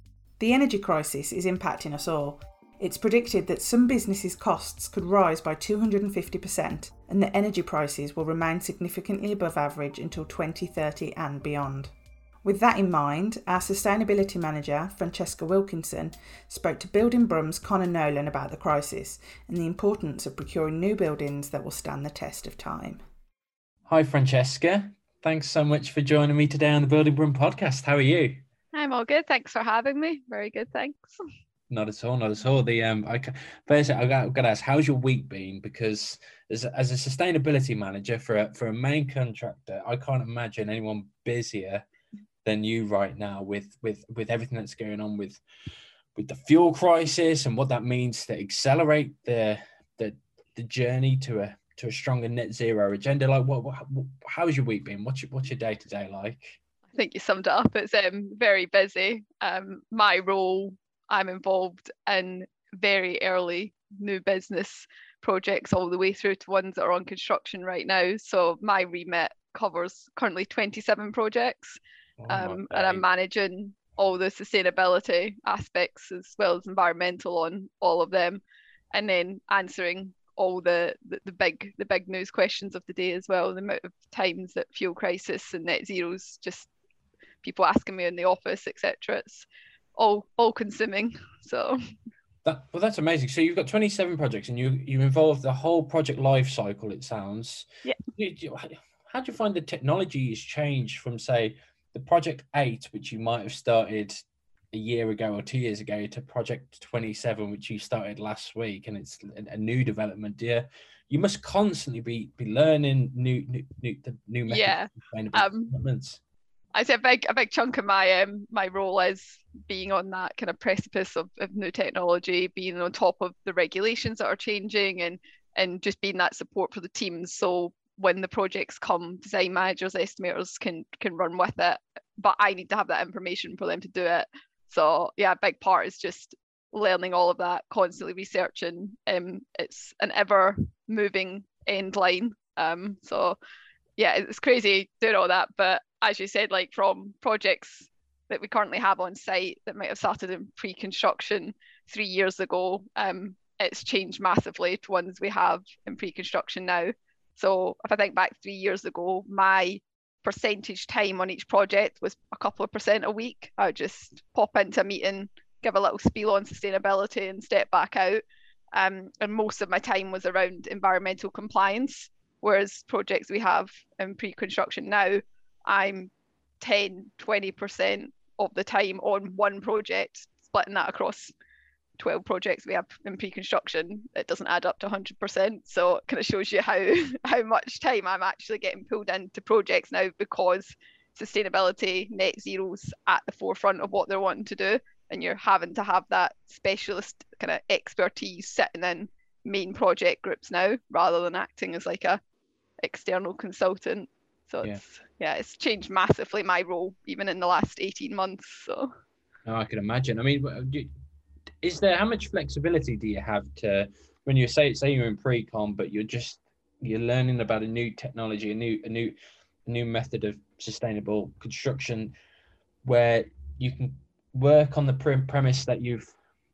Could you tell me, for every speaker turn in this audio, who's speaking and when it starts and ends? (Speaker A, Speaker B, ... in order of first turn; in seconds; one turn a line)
Speaker A: 0.4-11.9
Speaker A: 12.4-23.0
Speaker B: 23.9-28.4
Speaker C: 28.7-31.2
Speaker B: 31.7-41.9
Speaker B: 42.4-45.4
Speaker B: 46.1-56.6
Speaker C: 56.9-71.8
Speaker B: 72.2-73.0
Speaker C: 72.3-78.4
Speaker C: 78.9-86.7
Speaker C: 87.4-91.8
Speaker B: 92.4-104.2
Speaker B: 104.7-116.2
Speaker C: 114.5-115.7
Speaker C: 116.7-143.4
Speaker C: 144.0-168.2
Speaker C: 168.7-181.3
Speaker C: 182.0-202.2
Speaker C: 202.8-208.9
Speaker B: 209.4-210.9
Speaker B: 211.6-219.1
Speaker B: 219.7-222.1
Speaker B: 222.8-226.1